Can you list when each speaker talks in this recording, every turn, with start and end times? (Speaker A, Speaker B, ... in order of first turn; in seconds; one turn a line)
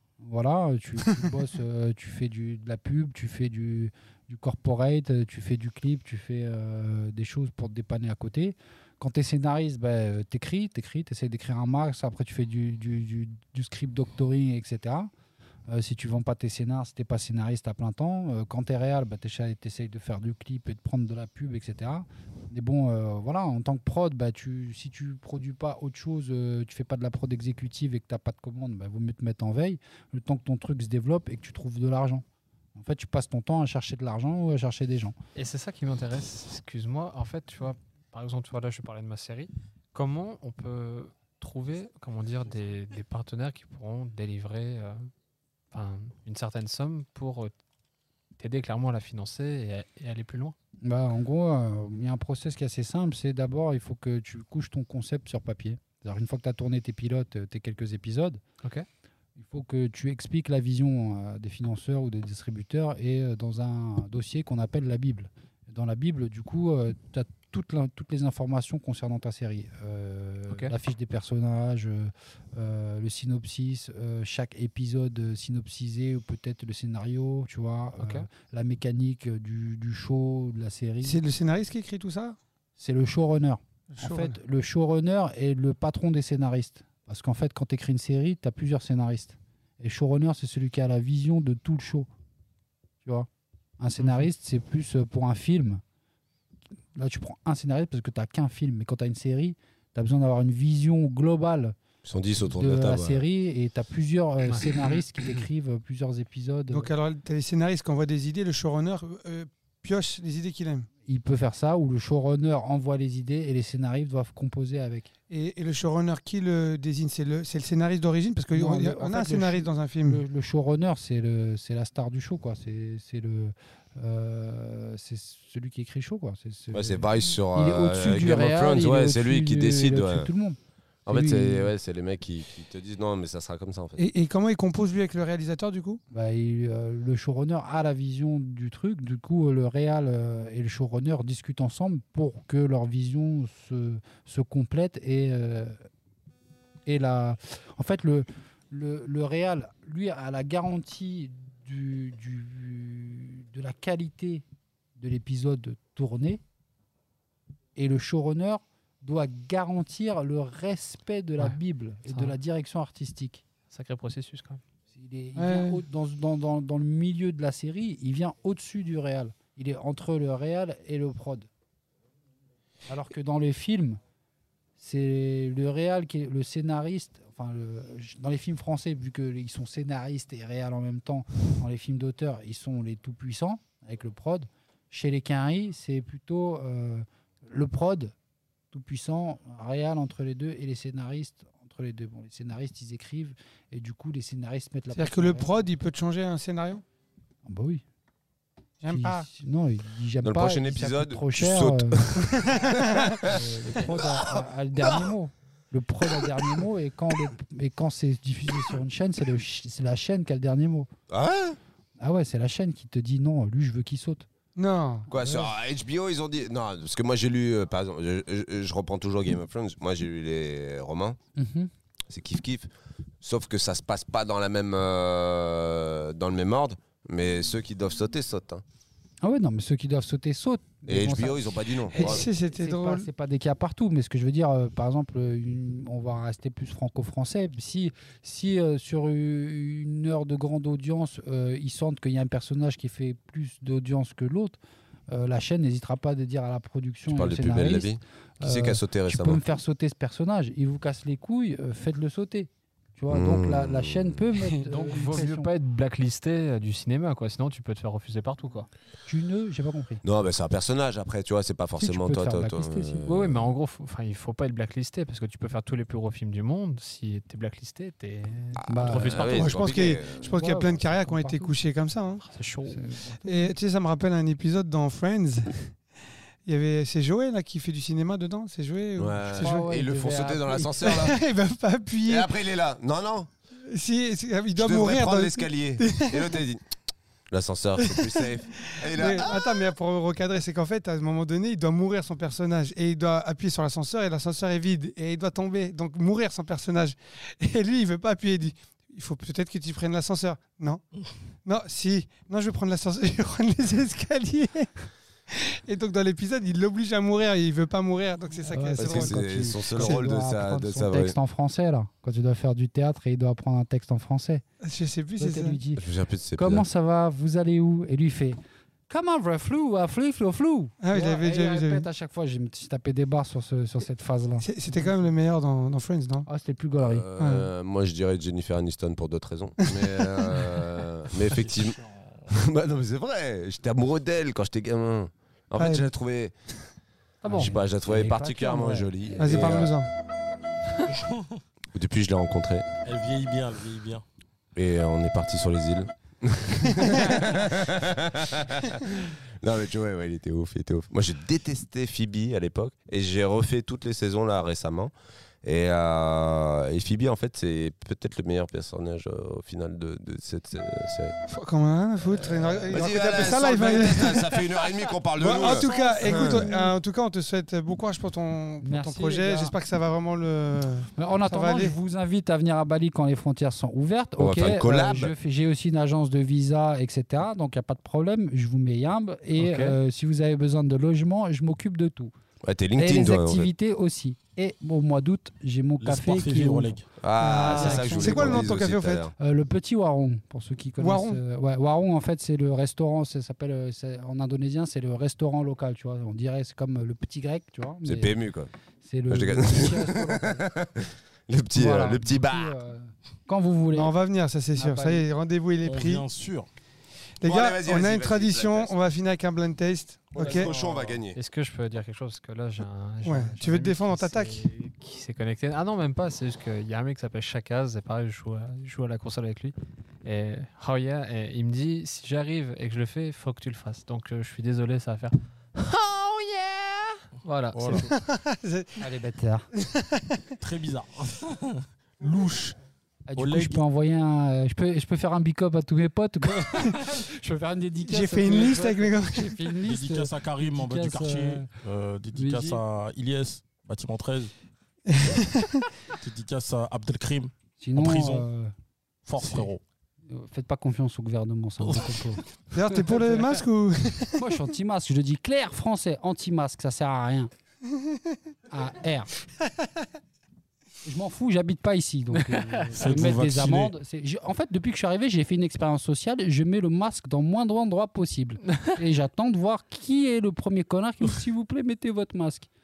Speaker A: 0.2-15.1
Speaker A: 15.7-32.2
Speaker A: 32.8-35.1
Speaker B: 35.4-45.1
Speaker B: 45.7-47.5
Speaker B: 48.4-50.6
Speaker A: 50.8-58.4
Speaker A: 59.4-81.2
Speaker B: 70.5-70.7
Speaker B: 78.0-78.3
Speaker C: 81.0-82.4
Speaker A: 82.8-92.1
Speaker C: 83.9-84.4
Speaker A: 93.0-93.3
Speaker A: 93.8-95.8
Speaker A: 97.0-101.8
Speaker D: 102.0-103.2
Speaker A: 102.4-106.9
Speaker C: 106.7-110.9
Speaker A: 111.1-115.1
Speaker C: 115.3-120.2
Speaker A: 118.5-131.7
Speaker D: 126.7-130.3
Speaker D: 131.1-134.0
Speaker C: 134.0-136.0
Speaker A: 136.1-145.8
Speaker A: 146.9-154.4
Speaker A: 155.0-156.4
Speaker A: 157.8-163.4
Speaker B: 162.1-162.4
Speaker B: 163.7-164.6
Speaker A: 164.9-171.5
Speaker C: 165.4-165.8
Speaker A: 172.9-174.0
Speaker A: 174.8-188.1
Speaker A: 188.7-195.5
Speaker C: 194.9-196.8
Speaker A: 197.4-197.8
Speaker C: 198.8-199.3
Speaker A: 198.8-202.2
Speaker D: 200.2-205.1
Speaker C: 202.5-203.2
Speaker A: 203.2-210.9
Speaker D: 206.2-206.6
Speaker D: 211.1-211.6
Speaker A: 212.0-214.3
Speaker C: 214.6-215.1
Speaker A: 215.1-215.5
Speaker D: 215.1-221.2
Speaker A: 221.4-221.7
Speaker D: 222.1-222.7
Speaker D: 223.2-228.6
Speaker A: 229.2-244.6
Speaker D: 230.9-232.3
Speaker C: 231.9-233.1
Speaker A: 245.1-255.5
Speaker D: 247.1-249.4
Speaker D: 253.1-254.2
Speaker C: 254.4-254.6
Speaker B: 254.6-258.7
Speaker A: 259.1-260.0
Speaker D: 260.0-263.5
Speaker A: 261.8-263.1
Speaker B: 263.1-269.5
Speaker D: 268.6-270.2
Speaker A: 268.7-269.2
Speaker C: 269.3-272.2
Speaker A: 270.1-271.5
Speaker B: 272.3-272.9
Speaker A: 272.7-273.5
Speaker C: 273.2-275.7
Speaker C: 276.4-279.6
Speaker D: 279.0-281.2
Speaker A: 279.4-281.1
Speaker C: 280.8-282.3
Speaker D: 282.1-283.3
Speaker C: 283.7-286.4
Speaker D: 284.6-286.6
Speaker D: 287.3-289.4
Speaker C: 287.8-300.8
Speaker C: 301.4-304.7
Speaker C: 305.3-310.1
Speaker A: 308.5-314.4
Speaker D: 308.8-311.2
Speaker C: 314.6-315.6
Speaker A: 315.2-315.8
Speaker D: 315.8-316.7
Speaker A: 316.4-318.4
Speaker A: 318.9-324.9
Speaker C: 320.8-321.9
Speaker C: 324.4-326.3
Speaker A: 326.3-327.1
Speaker D: 326.8-336.3
Speaker C: 327.2-327.5
Speaker C: 329.6-330.5
Speaker E: 331.3-331.9
Speaker C: 335.6-335.9
Speaker B: 337.2-337.5
Speaker A: 337.2-339.6
Speaker D: 337.3-339.7
Speaker C: 339.2-339.9
Speaker D: 341.7-342.7
Speaker E: 342.8-344.0
Speaker D: 344.6-354.9
Speaker D: 355.4-361.2
Speaker C: 361.3-364.5
Speaker D: 362.5-366.5
Speaker C: 365.2-371.8
Speaker A: 365.7-366.5
Speaker A: 368.6-369.5
Speaker A: 371.0-382.1
Speaker D: 374.2-375.1
Speaker B: 379.4-379.8
Speaker D: 382.4-383.5
Speaker A: 382.8-388.5
Speaker E: 385.8-386.9
Speaker D: 387.0-389.1
Speaker C: 387.2-389.1
Speaker A: 389.2-398.2
Speaker C: 390.8-391.2
Speaker D: 397.8-398.5
Speaker A: 398.8-400.5
Speaker D: 399.1-402.6
Speaker A: 401.5-403.9
Speaker C: 403.7-406.1
Speaker A: 404.6-405.1
Speaker E: 405.6-406.5
Speaker C: 407.2-410.5
Speaker D: 407.2-408.7
Speaker D: 410.1-411.2
Speaker E: 410.2-411.0
Speaker B: 411.1-425.1
Speaker C: 413.0-414.4
Speaker A: 425.7-426.8
Speaker B: 427.2-427.9
Speaker E: 427.5-427.9
Speaker C: 427.9-428.9
Speaker A: 428.8-429.5
Speaker C: 429.6-430.3
Speaker E: 430.4-432.6
Speaker A: 433.1-441.5
Speaker E: 433.2-433.6
Speaker C: 437.9-439.6
Speaker E: 439.6-444.3
Speaker A: 442.1-442.6
Speaker C: 444.9-445.7
Speaker E: 445.9-448.3
Speaker A: 447.6-448.5
Speaker E: 449.1-449.6
Speaker A: 450.1-452.2
Speaker E: 451.6-452.2
Speaker C: 452.5-454.4
Speaker A: 454.2-457.3
Speaker A: 458.5-459.1
Speaker A: 460.8-472.5
Speaker B: 462.1-462.6
Speaker E: 462.8-463.7